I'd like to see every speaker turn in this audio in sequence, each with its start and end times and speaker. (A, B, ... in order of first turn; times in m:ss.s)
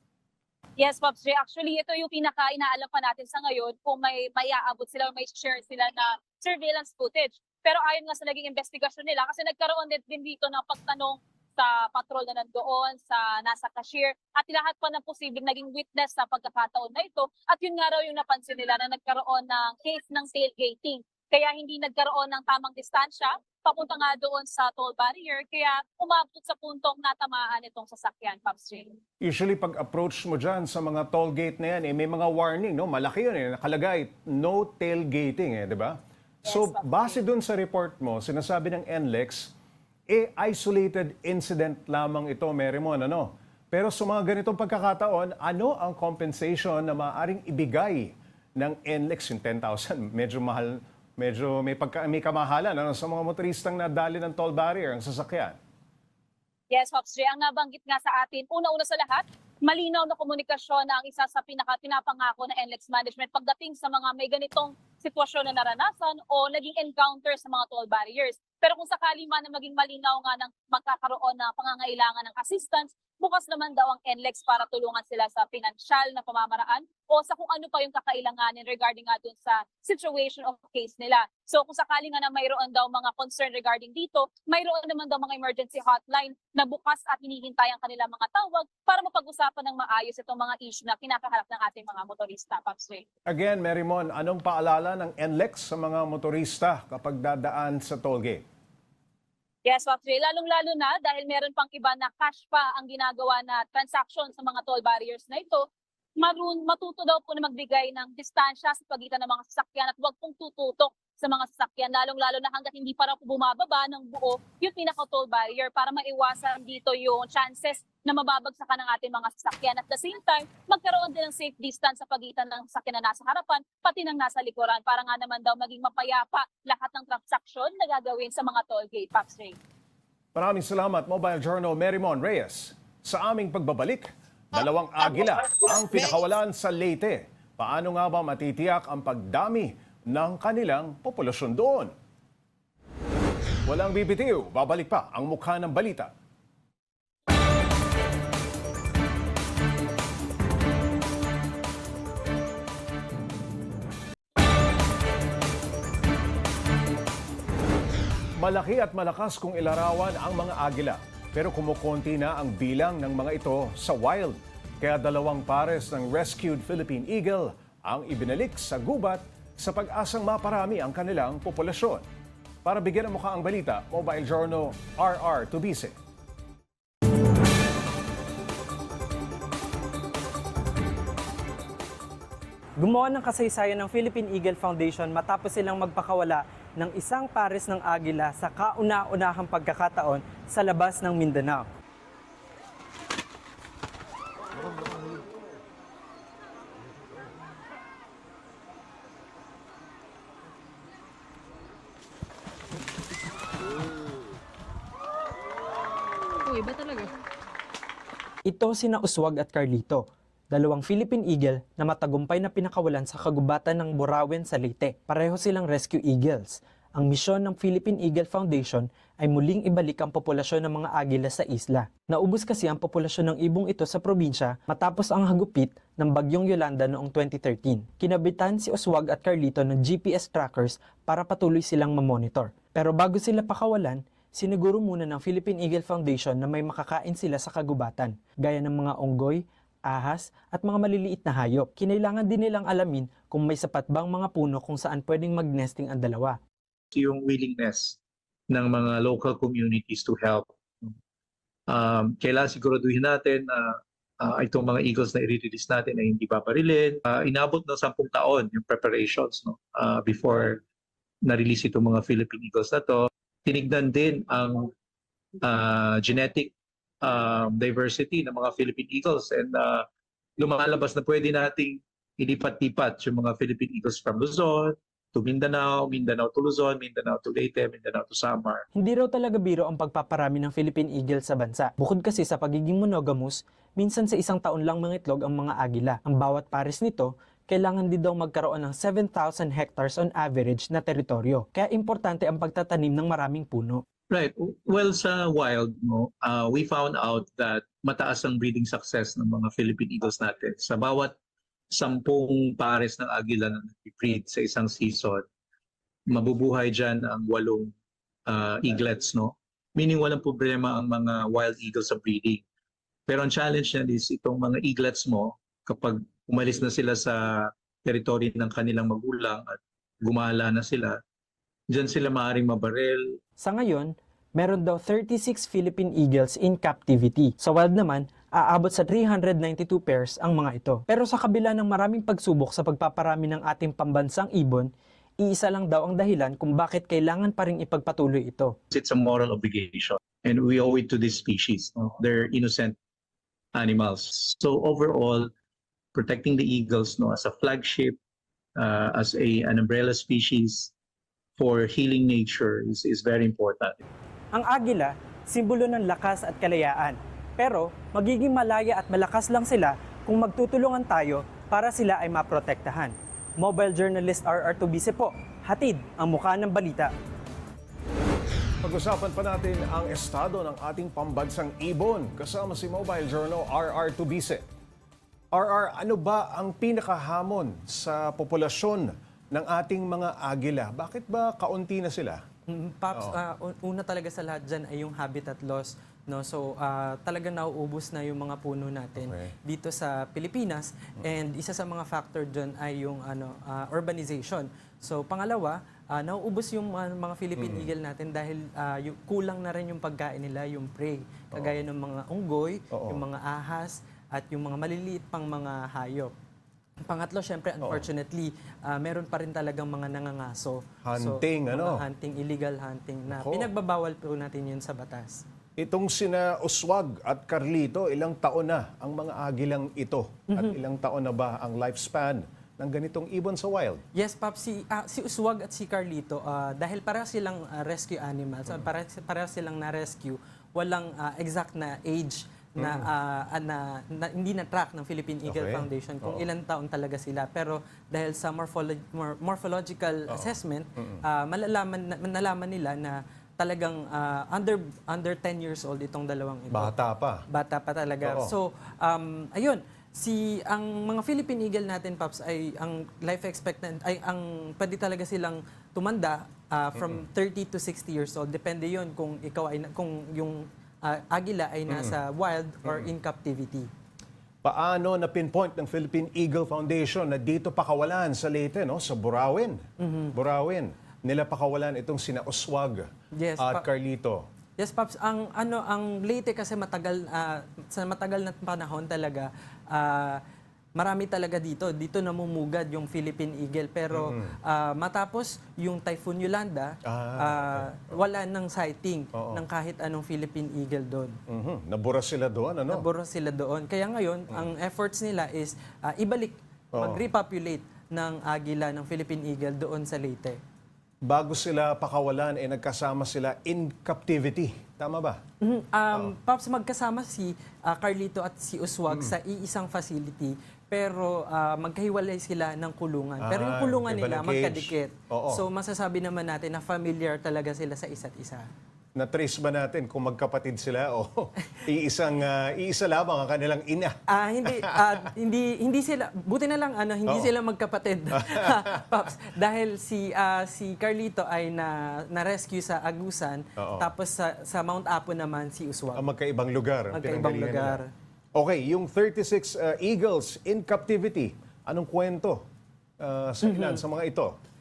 0:00.8-0:29.0 A
0:29.2-0:39.5 B
0:36.4-0:37.0 A
0:40.1-0:55.6 B
0:56.7-1:33.0 A
1:33.3-1:38.4 B
1:39.6-1:45.6 A
1:46.2-2:09.6 A
2:10.3-2:21.9 B
2:23.7-2:26.1 B
2:38.4-2:52.0 B
2:52.6-2:56.0 B
3:02.8-3:11.7 C
3:28.5-4:06.4 C
4:06.9-4:08.0 D
4:08.5-4:10.9 D
4:11.7-4:20.6 D
4:21.2-4:24.7 D
4:25.4-4:29.9 D
4:30.4-4:38.6 D
4:38.7-4:53.8 C
4:54.1-5:01.1 D
5:01.7-5:05.2 D
5:06.1-5:07.7 D
5:08.3-5:12.4 D
5:13.1-5:21.0 D
5:21.7-5:23.2 D
5:23.4-5:34.7 C
5:35.2-5:38.5 C
5:38.7-5:42.8 D
5:43.5-5:45.3 D
5:45.9-5:48.0 D
5:48.6-5:50.7 D
5:51.4-5:53.9 D
5:54.3-6:06.9 C
6:08.6-6:14.4 B
6:15.3-6:22.2 B
6:22.5-6:46.1 C
6:29.0-6:29.3 B
6:37.4-6:37.7 B
6:42.7-6:43.0 B
6:46.9-6:55.2 C
6:50.8-6:51.8 B
6:53.1-6:53.5 B
6:55.6-7:03.8 B
7:00.3-7:00.6 C
7:03.9-7:26.7 C
7:12.6-7:12.8 B
7:15.2-7:16.2 B
7:20.1-7:21.0 B
7:26.5-7:27.2 B
7:27.3-7:43.7 C
7:28.0-7:28.3 B
7:41.7-7:42.0 B
7:44.4-7:54.2 B
7:49.8-7:50.1 C
7:53.1-7:53.6 C
7:54.6-8:00.2 C
8:00.8-8:11.2 C
8:03.9-8:04.4 B
8:06.8-8:08.0 B
8:09.1-8:09.4 B
8:11.3-8:12.8 B
8:12.7-8:20.4 C
8:16.7-8:17.0 B
8:21.0-8:25.2 B
8:25.4-8:38.4 C
8:28.9-8:29.1 B
8:33.2-8:35.4 B
8:39.0-8:45.0 B
8:44.1-8:56.1 C
8:48.1-8:48.8 B
8:53.6-8:53.9 B
8:55.9-8:57.8 B
8:56.9-8:57.9 C
8:58.4-9:02.4 B
9:03.0-9:04.3 B
9:03.4-9:03.8 C